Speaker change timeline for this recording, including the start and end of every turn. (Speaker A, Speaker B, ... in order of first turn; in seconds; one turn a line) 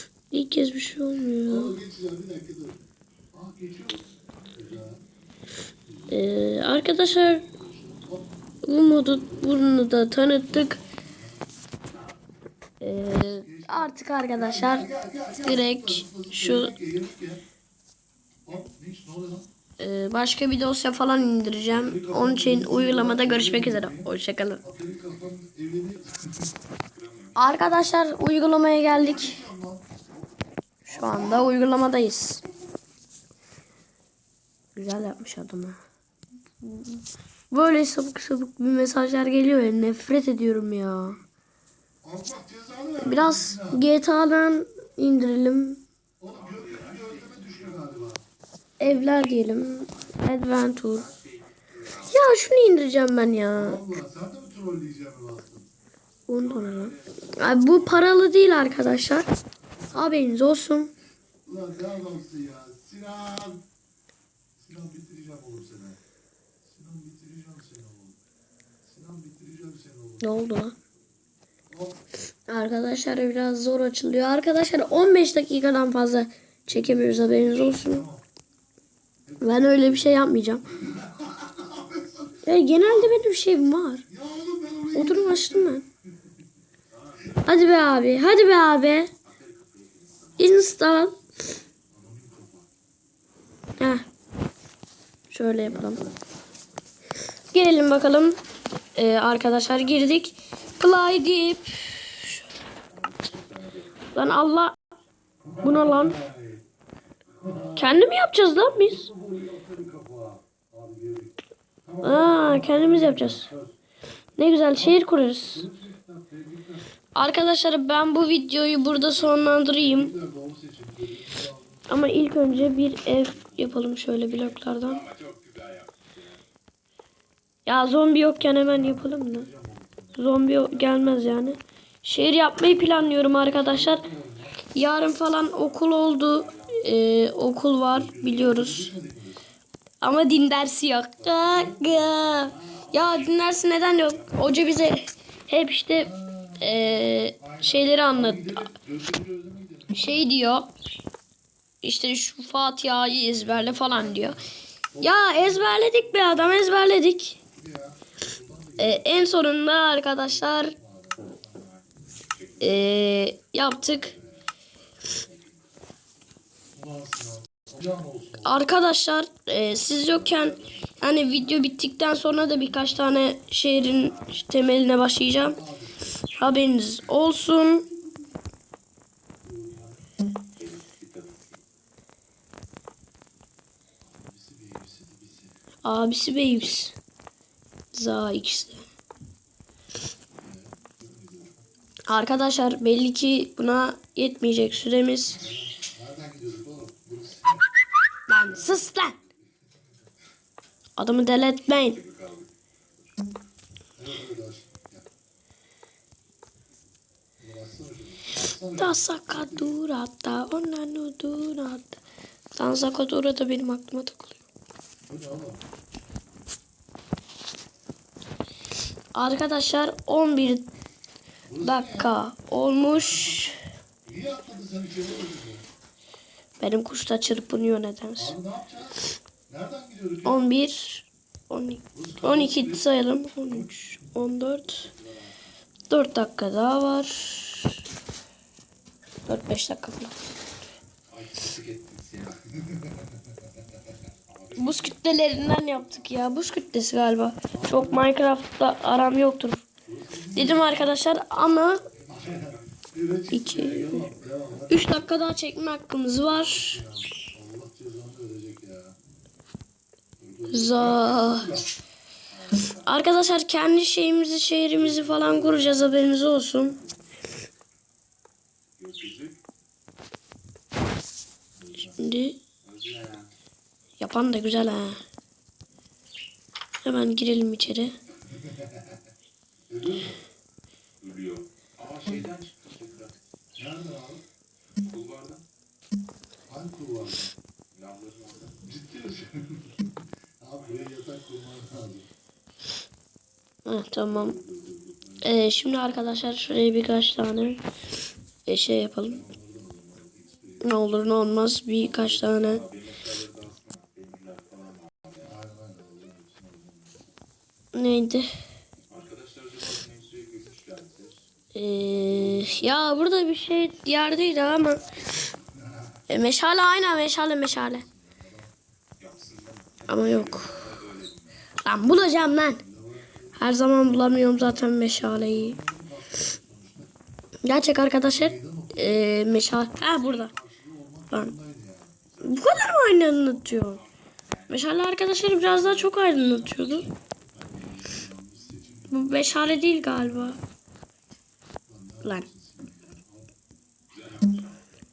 Speaker A: 0.3-1.8
Speaker B: 1.4-5.1
Speaker B: 5.7-6.3
Speaker A: 6.1-7.5
Speaker B: 6.9-11.5
Speaker A: 8.6-10.8
Speaker C: 11.9-12.2
Speaker A: 12.8-14.9
Speaker B: 13.0-17.5
Speaker A: 15.4-16.8
Speaker B: 18.4-19.5
Speaker A: 19.8-24.6
Speaker B: 21.7-24.1
Speaker B: 24.6-26.6
Speaker C: 26.8-28.1
Speaker A: 27.4-29.4
Speaker B: 28.9-30.3
Speaker B: 30.9-31.5
Speaker A: 30.9-32.4
Speaker A: 34.8-35.8
Speaker A: 36.6-37.0
Speaker A: 37.5-41.2
Speaker B: 42.0-43.9
Speaker A: 43.0-45.8
Speaker B: 46.2-48.2
Speaker C: 46.3-47.9
Speaker A: 48.8-51.1
Speaker C: 48.8-52.4
Speaker A: 52.1-53.8
Speaker B: 53.5-55.7
Speaker A: 56.3-59.3
Speaker C: 56.4-59.1
Speaker B: 59.7-60.3
Speaker A: 59.9-60.9
Speaker B: 61.4-63.6
Speaker B: 64.6-66.0
Speaker B: 66.6-68.2
Speaker B: 68.8-70.3
Speaker A: 70.2-70.8
Speaker B: 71.7-72.1
Speaker A: 72.5-78.0
Speaker B: 76.7-78.3
Speaker B: 79.2-83.2
Speaker A: 79.4-80.6
Speaker A: 82.4-84.0
Speaker B: 84.1-86.4
Speaker A: 84.9-85.8
Speaker C: 86.9-88.3
Speaker A: 87.5-89.1
Speaker C: 89.2-90.9
Speaker A: 90.4-91.2
Speaker B: 91.9-92.7
Speaker A: 93.8-94.0
Speaker A: 95.3-96.0
Speaker A: 97.5-98.4
Speaker A: 99.0-102.4
Speaker C: 100.6-101.0
Speaker C: 102.9-104.2
Speaker A: 104.2-104.8
Speaker B: 105.4-106.7
Speaker A: 105.6-106.2
Speaker B: 107.3-113.8
Speaker A: 107.8-109.1
Speaker A: 112.0-113.5
Speaker A: 114.4-115.7
Speaker B: 114.8-117.0
Speaker A: 117.2-120.1
Speaker B: 119.0-123.6
Speaker A: 121.9-125.0
Speaker C: 124.3-126.4
Speaker A: 127.7-129.5
Speaker B: 128.4-131.1
Speaker A: 130.2-134.1
Speaker B: 132.9-134.7
Speaker A: 134.7-138.9
Speaker C: 136.1-137.0
Speaker B: 137.9-139.5
Speaker A: 140.0-148.6
Speaker B: 141.2-142.7
Speaker C: 142.5-145.0
Speaker B: 145.9-150.3
Speaker A: 149.9-150.7
Speaker A: 151.8-154.4
Speaker B: 153.3-156.8
Speaker A: 155.0-157.4
Speaker B: 157.6-159.5
Speaker A: 158.8-160.7
Speaker B: 160.3-161.7
Speaker C: 161.2-162.9
Speaker A: 162.6-164.1
Speaker B: 163.8-164.4
Speaker C: 165.1-165.8
Speaker B: 166.7-168.7
Speaker A: 168.4-175.6
Speaker C: 170.0-171.7
Speaker C: 173.7-174.4
Speaker B: 175.4-176.3
Speaker A: 176.3-177.9
Speaker B: 177.9-178.4
Speaker B: 179.4-180.1
Speaker C: 180.6-181.6
Speaker B: 184.0-185.6
Speaker A: 185.8-186.9
Speaker A: 187.9-188.8
Speaker B: 190.4-191.6
Speaker A: 192.1-195.4
Speaker B: 195.3-197.7
Speaker A: 198.3-199.2
Speaker B: 198.3-199.8
Speaker A: 201.0-202.0
Speaker C: 201.7-203.4
Speaker B: 204.0-205.1
Speaker B: 207.4-209.8
Speaker A: 208.8-212.0
Speaker A: 212.6-214.4
Speaker B: 215.1-215.7
Speaker A: 219.2-220.7
Speaker B: 221.4-222.2
Speaker A: 221.6-223.6
Speaker B: 222.9-225.7
Speaker A: 226.6-228.3
Speaker B: 228.2-230.5
Speaker A: 230.2-234.9
Speaker B: 231.9-232.9
Speaker B: 233.5-233.8
Speaker C: 234.8-235.4
Speaker A: 235.9-237.7
Speaker A: 239.3-240.1
Speaker C: 241.1-242.5
Speaker B: 242.6-243.3
Speaker C: 244.3-246.5
Speaker A: 244.6-249.7
Speaker B: 247.5-248.1
Speaker B: 249.8-250.9
Speaker A: 250.3-251.8
Speaker C: 251.6-252.9
Speaker B: 252.0-255.1
Speaker A: 253.3-254.1
Speaker A: 254.7-256.8
Speaker B: 256.2-259.0
Speaker B: 260.2-261.7
Speaker A: 260.5-261.5
Speaker C: 262.3-263.0
Speaker A: 262.8-266.8
Speaker B: 264.8-266.1
Speaker C: 268.8-269.4
Speaker B: 271.5-272.1
Speaker A: 272.0-272.4
Speaker C: 272.6-273.3
Speaker A: 274.0-275.0
Speaker A: 276.8-277.9
Speaker B: 278.3-278.9
Speaker B: 279.7-280.2
Speaker C: 281.0-283.2
Speaker B: 283.6-284.2
Speaker C: 284.8-285.4
Speaker B: 286.5-287.3
Speaker C: 287.7-288.6
Speaker B: 288.6-292.1
Speaker C: 290.6-290.9
Speaker A: 293.7-294.4
Speaker B: 294.1-295.5
Speaker A: 295.2-297.6
Speaker A: 298.5-299.2
Speaker B: 299.0-300.9
Speaker A: 300.6-302.6
Speaker C: 302.2-305.4
Speaker B: 305.2-307.0
Speaker A: 307.7-308.3
Speaker C: 308.9-311.3
Speaker A: 311.5-314.8
Speaker B: 311.8-312.6
Speaker B: 315.5-315.9
Speaker A: 316.1-317.8
Speaker B: 316.9-318.5
Speaker C: 319.0-321.4
Speaker A: 319.9-320.6
Speaker A: 321.6-322.6
Speaker B: 321.7-326.9
Speaker A: 323.4-325.6
Speaker A: 327.4-330.3
Speaker B: 328.1-332.0
Speaker C: 332.1-334.7
Speaker A: 332.2-333.8
Speaker A: 334.5-336.9
Speaker B: 335.5-340.4
Speaker A: 338.9-340.4
Speaker B: 341.7-343.3
Speaker C: 343.9-344.6